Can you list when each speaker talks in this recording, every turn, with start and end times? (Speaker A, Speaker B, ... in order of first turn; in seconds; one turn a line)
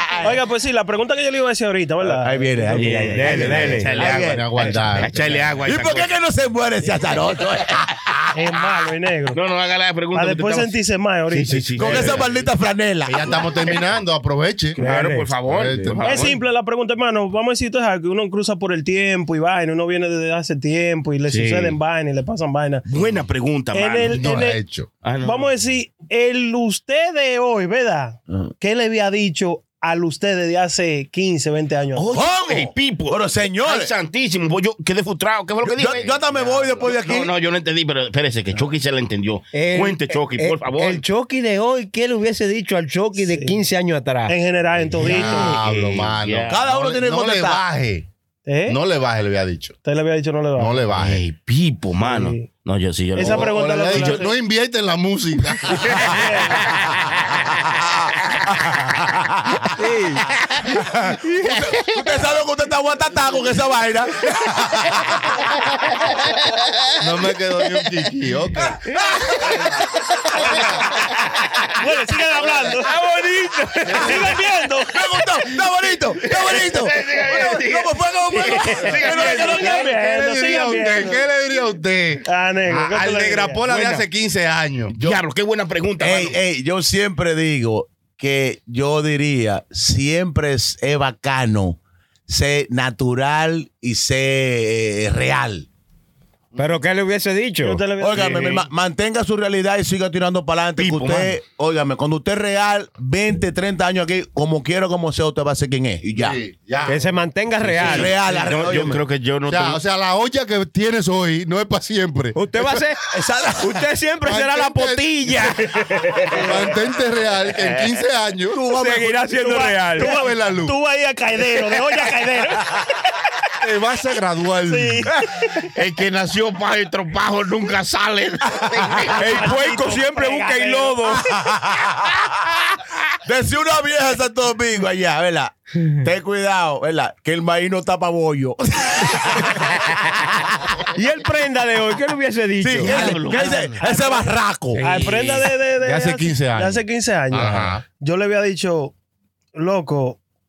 Speaker A: 0.2-3.0
Speaker B: 2.0-4.8
Speaker C: 2.7-6.1
Speaker D: 3.1-4.0
Speaker E: 4.0-5.6
Speaker B: 5.6-8.2
Speaker A: 8.3-9.4
Speaker C: 9.3-10.8
Speaker A: 10.1-11.9
Speaker C: 11.3-12.3
Speaker B: 11.8-13.4
Speaker E: 11.9-12.2
Speaker E: 13.1-14.8
Speaker D: 14.8-15.3
Speaker C: 14.8-16.4
Speaker E: 15.4-16.3
Speaker A: 16.0-22.8
Speaker C: 21.3-21.8
Speaker C: 22.9-24.2
Speaker A: 23.7-24.6
Speaker E: 24.1-24.9
Speaker C: 25.0-25.5
Speaker A: 25.2-32.1
Speaker C: 31.9-41.0
Speaker B: 32.1-33.9
Speaker B: 35.6-37.3
Speaker D: 39.5-44.3
Speaker A: 43.2-43.6
Speaker A: 44.3-45.6
Speaker C: 44.9-46.6
Speaker E: 45.0-48.1
Speaker B: 46.5-47.6
Speaker A: 48.5-48.8
Speaker E: 48.7-49.7
Speaker A: 49.8-50.8
Speaker E: 50.5-51.2
Speaker C: 51.0-54.3
Speaker A: 52.0-52.5
Speaker A: 53.1-54.3
Speaker E: 53.2-56.2
Speaker C: 55.8-56.0
Speaker A: 56.0-56.6
Speaker C: 56.8-57.4
Speaker B: 57.5-59.6
Speaker D: 59.8-60.3
Speaker B: 60.6-65.3
Speaker E: 67.0-68.9
Speaker C: 69.0-69.6
Speaker E: 70.3-70.9
Speaker A: 71.7-72.9
Speaker C: 72.9-74.1
Speaker D: 73.1-74.0
Speaker A: 74.0-75.0
Speaker B: 74.9-79.8
Speaker C: 76.2-79.8
Speaker E: 78.6-84.9
Speaker A: 79.0-81.2
Speaker A: 82.3-83.6
Speaker C: 83.7-84.0
Speaker B: 84.9-85.2
Speaker C: 85.0-86.4
Speaker B: 86.0-95.7
Speaker D: 96.6-97.8
Speaker A: 97.6-98.7
Speaker B: 98.0-106.4
Speaker C: 100.8-101.4
Speaker E: 106.2-108.1
Speaker D: 106.9-108.1
Speaker B: 107.8-109.0
Speaker C: 107.8-109.8
Speaker E: 109.5-112.9
Speaker D: 112.3-113.0
Speaker B: 113.1-113.8
Speaker D: 113.6-116.2
Speaker E: 114.2-118.6
Speaker B: 118.5-119.4
Speaker D: 118.8-120.1
Speaker A: 119.4-122.9
Speaker E: 120.0-120.7
Speaker E: 123.6-125.1
Speaker A: 124.7-125.7
Speaker C: 125.7-129.3
Speaker B: 128.6-129.1
Speaker A: 129.2-131.0
Speaker D: 129.2-131.3
Speaker B: 131.3-132.1
Speaker B: 133.2-139.7
Speaker D: 140.9-143.4
Speaker B: 142.6-144.8
Speaker C: 142.8-143.8
Speaker A: 143.7-144.3
Speaker C: 144.8-145.5
Speaker A: 144.8-148.9
Speaker E: 145.8-147.8
Speaker A: 149.6-150.2